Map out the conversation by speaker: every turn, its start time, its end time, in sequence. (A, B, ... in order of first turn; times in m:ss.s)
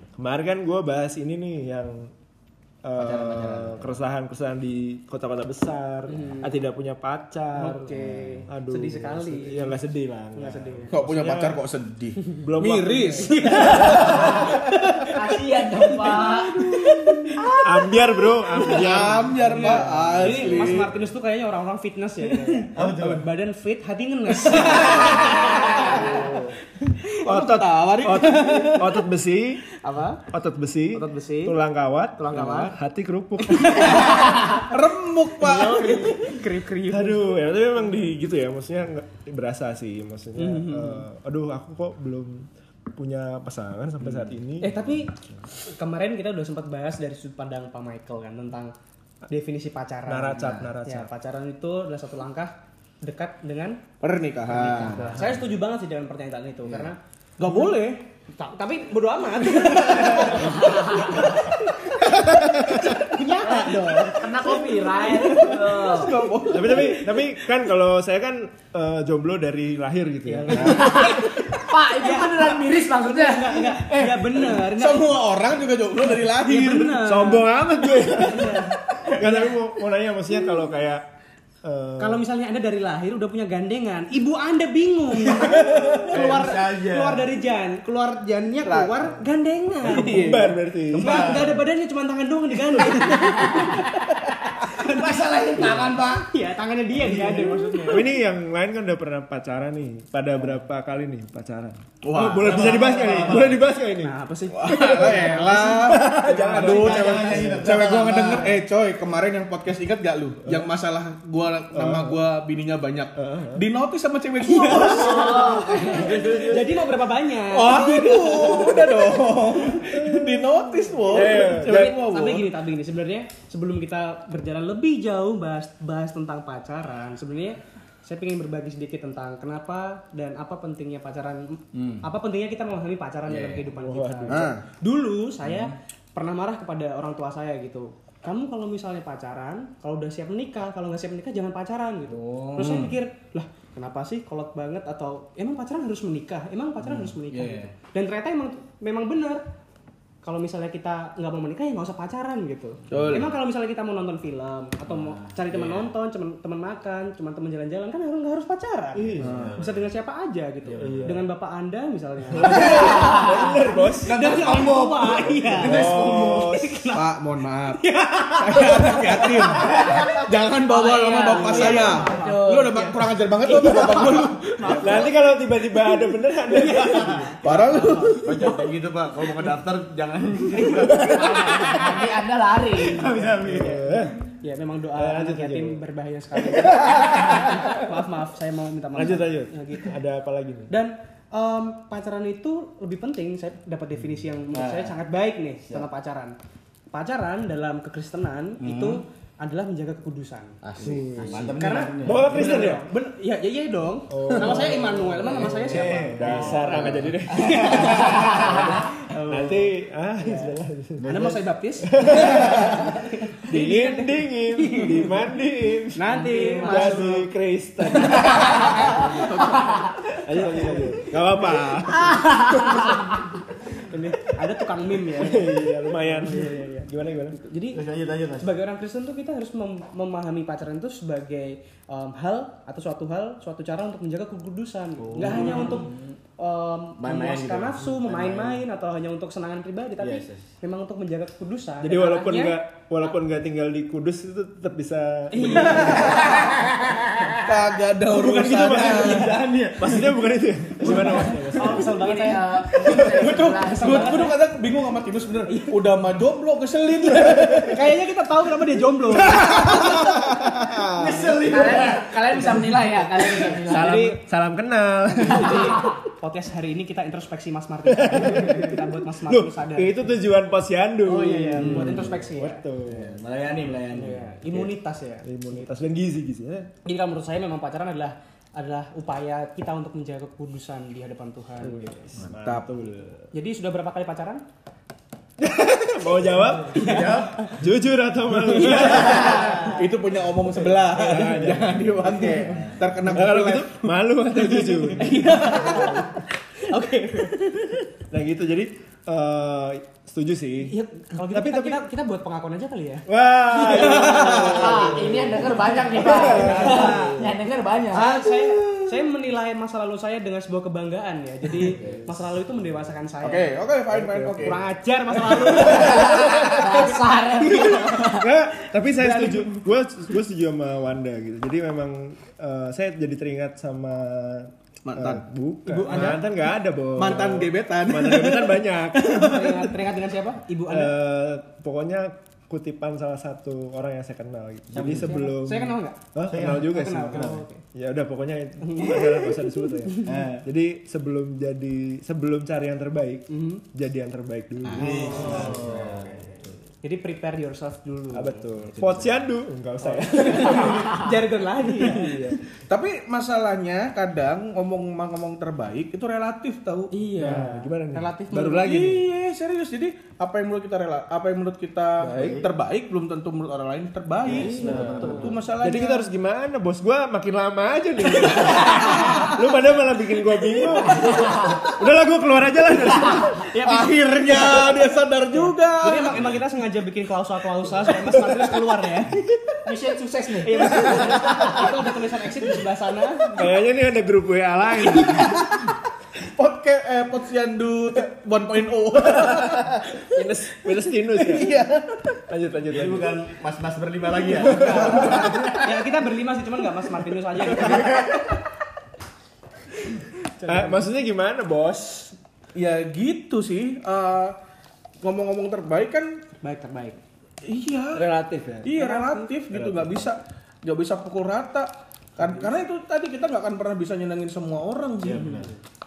0:00.2-0:02.1 A
0:02.8-0:11.6 A
0:03.0-0:04.0 B
0:06.1-0:06.6 C
0:07.5-0:09.8 C
0:10.3-0:10.9 C
0:10.9-0:13.7 D
0:12.4-0:14.9 A
0:12.6-0:17.6 C
0:15.1-0:16.7 E
0:16.8-0:17.1 D
0:17.6-0:20.8 A
0:18.7-0:20.9 D
0:19.5-0:26.4 C
0:20.0-0:20.4 B
0:22.7-0:23.3 B
0:24.5-0:26.0 D
0:25.5-0:26.0 E
0:25.9-0:26.5 A
0:27.2-0:29.0 D
0:27.2-0:29.6 A
0:28.1-0:28.8 C
0:29.8-0:30.2 C
0:30.3-0:34.2 A
0:30.9-0:31.5 C
0:32.2-0:32.7 C
0:33.5-0:34.7 C
0:34.4-0:36.3 D
0:35.4-0:37.3 C
0:36.9-0:44.8 A
0:40.3-0:41.0 C
0:44.6-0:48.7 C
0:49.3-0:53.8 C
0:50.0-0:51.1 A
0:54.0-0:55.1 D
0:54.5-0:55.4 B
0:54.8-0:57.0 C
0:57.4-0:58.0 D
0:58.3-1:05.8 C
0:59.6-1:00.4 D
1:00.5-1:01.1 E
1:03.4-1:06.1 E
1:04.0-1:07.2 D
1:06.5-1:11.4 A
1:10.3-1:15.2 C
1:11.6-1:13.8 E
1:14.0-1:17.0 D
1:16.4-1:17.5 C
1:17.0-1:21.0 A
1:18.1-1:19.5 C
1:21.6-1:22.2 A
1:22.0-1:30.3 C
1:25.4-1:26.1 A
1:26.1-1:27.3 B
1:26.2-1:26.5 D
1:28.6-1:29.1 D
1:29.8-1:30.6 D
1:29.9-1:31.3 A
1:30.9-1:31.6 B
1:30.9-1:38.1 C
1:33.3-1:33.8 E
1:34.8-1:36.2 E
1:35.2-1:36.0 B
1:37.9-1:44.1 A
1:42.0-1:42.7 D
1:42.4-1:43.6 B
1:44.0-1:47.4 C
1:44.5-1:56.2 D
1:44.7-1:47.6 A
1:46.5-1:48.6 B
1:51.7-1:52.2 A
1:53.2-1:53.6 A
1:54.4-1:59.1 C
1:55.0-1:56.4 E
1:55.8-1:56.6 B
1:57.5-2:02.5 D
2:00.0-2:00.4 A
2:01.0-2:02.0 A
2:02.0-2:29.4 C
2:11.7-2:12.0 B
2:13.3-2:13.7 B
2:13.7-2:14.6 A
2:14.3-2:14.6 D
2:15.4-2:15.7 B
2:22.1-2:22.9 B
2:22.6-2:22.9 D
2:26.8-2:27.7 B
2:30.2-2:47.1 C
2:32.9-2:33.3 D
2:34.9-2:35.9 B
2:38.9-2:39.4 A
2:39.2-2:39.8 B
2:39.2-2:39.6 D
2:40.7-2:41.2 B
2:40.8-2:41.2 A
2:42.3-2:44.4 A
2:42.4-2:42.9 B
2:42.8-2:43.4 E
2:44.0-2:46.3 B
2:45.6-2:46.8 A
2:45.6-2:46.4 D
2:46.9-2:54.8 D
2:47.7-2:52.4 C
2:51.0-2:53.1 E
2:53.4-2:55.1 C
2:54.0-2:55.1 E
2:54.8-2:57.3 A
2:55.7-2:58.3 C
2:57.4-2:58.4 D
2:58.1-3:01.7 B
3:00.5-3:01.9 C
3:00.8-3:01.6 A
3:01.0-3:03.2 E
3:02.7-3:03.8 B
3:03.4-3:10.0 C
3:03.4-3:04.2 A
3:04.9-3:05.8 A
3:06.5-3:07.7 A
3:08.9-3:10.7 A
3:10.7-3:16.4 C
3:14.5-3:14.9 B
3:16.9-3:20.6 C
3:18.6-3:19.0 B
3:20.6-3:22.7 B
3:20.8-3:22.8 A
3:21.3-3:29.7 C
3:24.1-3:32.9 A
3:24.5-3:28.6 B
3:30.2-3:30.5 C
3:31.0-3:31.4 B
3:31.0-3:35.3 C
3:32.3-3:32.8 B
3:33.5-3:38.9 A
3:35.9-3:37.2 C
3:36.4-3:37.2 B
3:38.0-3:41.0 C
3:39.0-3:39.6 D
3:40.1-3:42.8 A
3:42.5-3:42.9 E
3:43.7-3:47.8 C
3:45.0-3:47.4 A
3:47.7-3:48.6 B
3:48.4-4:02.6 C
3:55.0-3:56.1 B
3:57.0-3:58.6 B
4:00.0-4:00.4 B
4:01.8-4:06.3 A
4:05.3-4:06.3 C
4:05.7-4:06.3 D
4:07.4-4:09.4 D
4:08.1-4:11.9 A
4:08.6-4:10.3 B
4:10.8-4:14.4 C
4:10.9-4:11.5 B
4:11.5-4:14.4 E
4:12.8-4:17.8 D
4:15.5-4:15.8 C
4:17.6-4:19.8 C
4:19.2-4:20.0 D
4:19.3-4:21.4 A
4:21.0-4:22.6 B
4:21.4-4:24.0 E
4:23.6-4:25.9 A
4:23.7-4:24.2 C
4:25.3-4:30.3 C
4:25.6-4:25.9 E
4:27.8-4:33.2 A
4:31.0-4:32.1 B
4:31.5-4:32.6 C
4:32.8-4:34.6 B
4:33.9-4:35.3 C
4:35.2-4:36.7 A
4:36.8-4:41.9 C
4:41.6-4:43.3 A
4:42.3-4:42.7 D
4:43.3-4:44.4 C
4:45.4-4:49.7 A
4:46.6-4:47.5 C
4:46.8-4:47.5 B
4:48.6-4:49.7 C
4:49.1-4:53.9 D
4:50.9-4:52.2 A
4:53.1-4:56.1 A
4:54.8-4:57.9 C
4:58.1-5:00.7 A
5:00.6-5:04.5 C
5:01.3-5:01.8 A
5:03.1-5:07.3 A
5:03.7-5:04.8 D
5:04.4-5:08.0 E
5:06.4-5:07.2 C
5:07.9-5:13.5 C
5:11.8-5:12.1 B
5:13.2-5:14.6 D
5:13.9-5:14.6 A
5:14.4-5:16.4 C
5:15.2-5:15.7 D
5:15.6-5:16.4 A
5:15.8-5:18.3 E
5:17.5-5:29.4 A
5:19.0-5:19.6 C
5:24.8-5:26.2 D
5:27.0-5:29.7 D
5:29.1-5:31.0 C
5:30.7-5:45.7 A
5:34.7-5:35.1 B
5:35.0-5:37.6 C
5:36.2-5:37.4 B
5:38.6-5:39.7 C
5:40.0-5:40.4 B
5:43.3-5:43.6 C
5:44.7-5:45.0 D
5:44.7-5:46.5 B
5:45.1-5:45.5 C
5:46.8-5:48.5 C
5:48.1-5:51.1 A
5:48.8-5:49.2 B
5:49.8-5:52.4 C
5:51.8-5:52.4 A
5:52.7-5:56.9 D
5:56.9-5:58.7 C
5:57.2-5:59.1 A
5:58.6-6:06.0 D
6:02.0-6:02.4 A
6:02.1-6:02.5 B
6:04.2-6:05.4 B
6:04.3-6:13.5 A
6:04.3-6:04.9 C
6:04.5-6:05.4 E
6:10.9-6:11.6 E
6:13.5-6:14.7 C
6:13.6-6:16.2 D
6:15.3-6:19.2 C
6:17.9-6:18.6 A
6:19.6-6:21.6 E
6:20.4-6:23.5 C
6:23.4-6:25.7 A
6:25.1-6:25.6 D
6:26.4-6:29.9 D
6:29.2-6:31.6 A
6:31.2-6:32.0 D
6:32.3-6:33.2 A
6:32.7-6:35.4 B
6:34.6-6:35.5 A
6:34.7-6:38.1 C
6:37.6-6:38.1 B
6:40.4-6:40.8 C
6:40.4-6:42.2 A
6:42.5-6:44.3 D
6:45.0-6:46.2 D
6:46.4-6:47.0 C
6:47.4-6:48.0 D
6:47.9-6:48.7 A
6:48.6-6:55.4 D
6:48.8-6:49.3 C
6:49.5-6:50.0 A
6:55.0-6:55.6 B
6:55.1-6:55.5 C